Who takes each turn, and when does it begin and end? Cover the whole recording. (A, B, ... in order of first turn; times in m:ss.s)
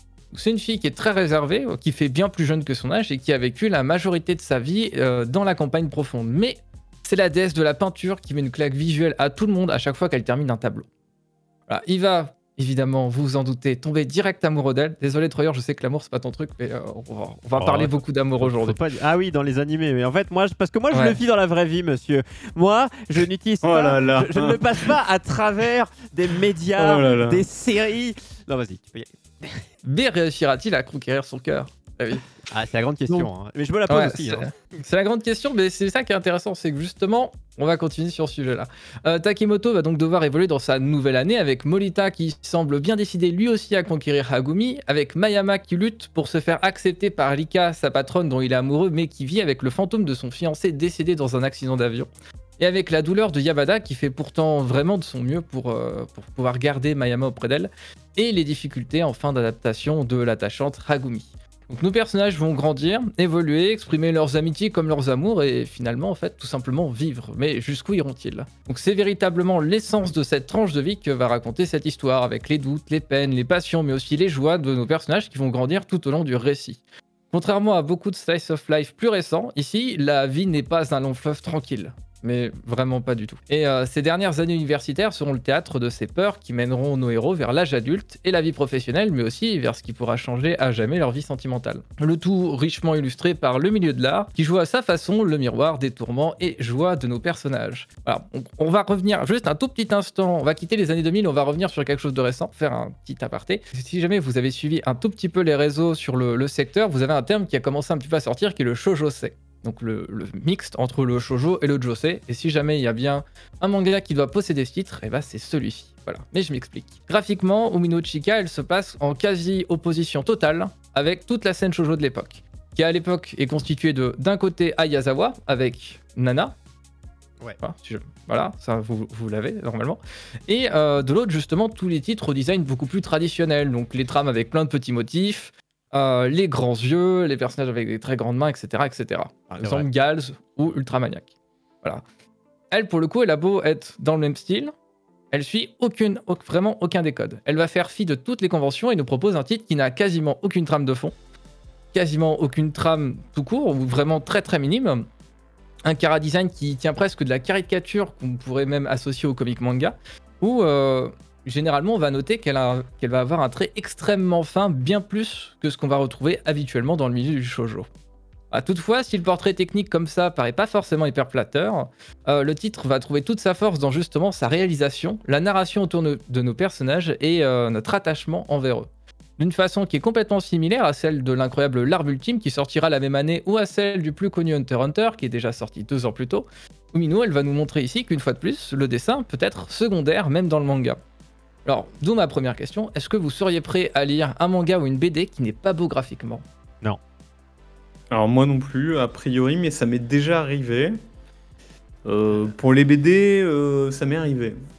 0:00.3-0:10.9 A
0:11.7-0:18.8 A
0:17.6-0:29.6 B
0:20.9-0:21.2 A
0:23.6-0:24.9 C
0:26.8-0:27.5 C
0:29.8-0:32.3 A
0:32.5-0:34.5 B
0:33.9-1:16.8 A
1:17.3-2:06.5 A
2:07.6-2:21.3 A
2:19.5-2:19.9 B
2:22.7-2:24.7 A
2:25.3-2:31.1 A
2:31.9-2:35.0 A
2:35.9-2:47.9 A
2:48.5-2:58.9 A
2:59.4-3:11.0 A
3:11.7-3:16.4 A
3:18.1-3:21.0 C
3:22.0-3:24.6 C